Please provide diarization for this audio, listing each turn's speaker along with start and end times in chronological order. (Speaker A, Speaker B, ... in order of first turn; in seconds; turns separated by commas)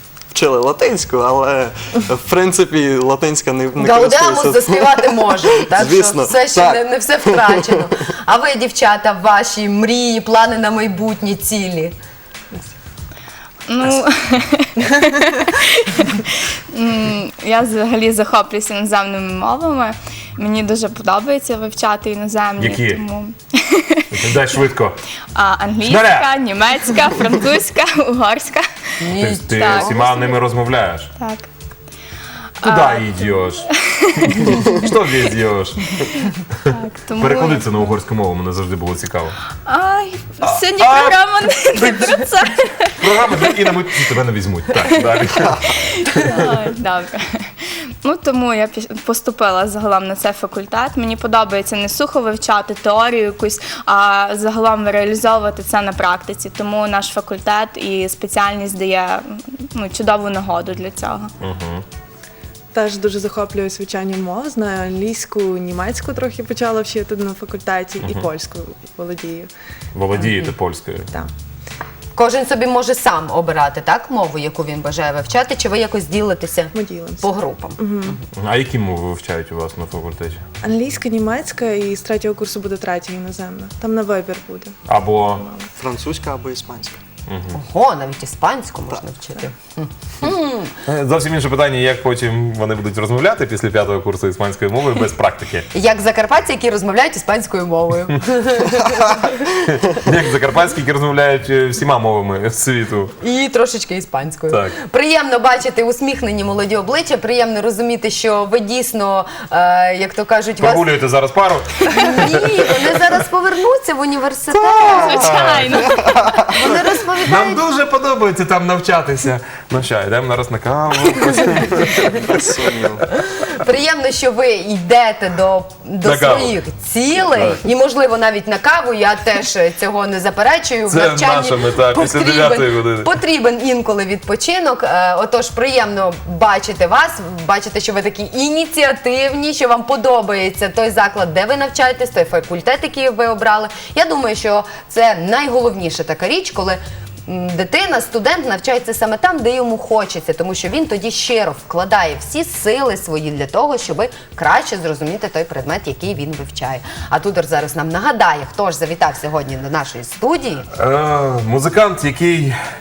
Speaker A: 0.3-7.7, Speaker B: 3.8-11.9, Speaker C: 13.7-24.0, Speaker D: 22.6-23.0, Speaker D: 24.1-25.0, Speaker C: 25.4-28.6, Speaker D: 25.8-26.3, Speaker B: 29.0-30.0, Speaker D: 29.1-31.1, Speaker C: 29.6-30.3, Speaker C: 31.2-31.5, Speaker C: 32.6-34.8, Speaker D: 32.6-33.7, Speaker D: 34.2-36.2, Speaker C: 36.2-37.9, Speaker D: 37.2-39.4, Speaker C: 39.7-43.6, Speaker D: 40.4-42.2, Speaker D: 43.0-46.5, Speaker C: 45.6-61.3, Speaker D: 61.4-61.9, Speaker E: 62.7-69.5, Speaker D: 69.9-71.1, Speaker E: 70.2-70.5, Speaker B: 72.2-78.2, Speaker E: 76.7-78.2, Speaker D: 78.3-80.4, Speaker E: 80.6-85.7, Speaker D: 84.9-85.4, Speaker A: 85.8-87.0, Speaker D: 87.3-87.6, Speaker B: 87.5-90.8, Speaker D: 90.9-95.7, Speaker B: 95.7-99.4, Speaker D: 99.2-103.1, Speaker B: 103.2-110.9, Speaker D: 104.5-104.8, Speaker D: 110.6-112.8, Speaker B: 111.9-117.6, Speaker D: 114.7-116.7, Speaker C: 114.8-116.1, Speaker D: 117.3-122.3, Speaker A: 122.1-123.1, Speaker B: 123.4-160.7, Speaker D: 126.0-126.6, Speaker D: 130.9-133.1, Speaker D: 160.7-162.6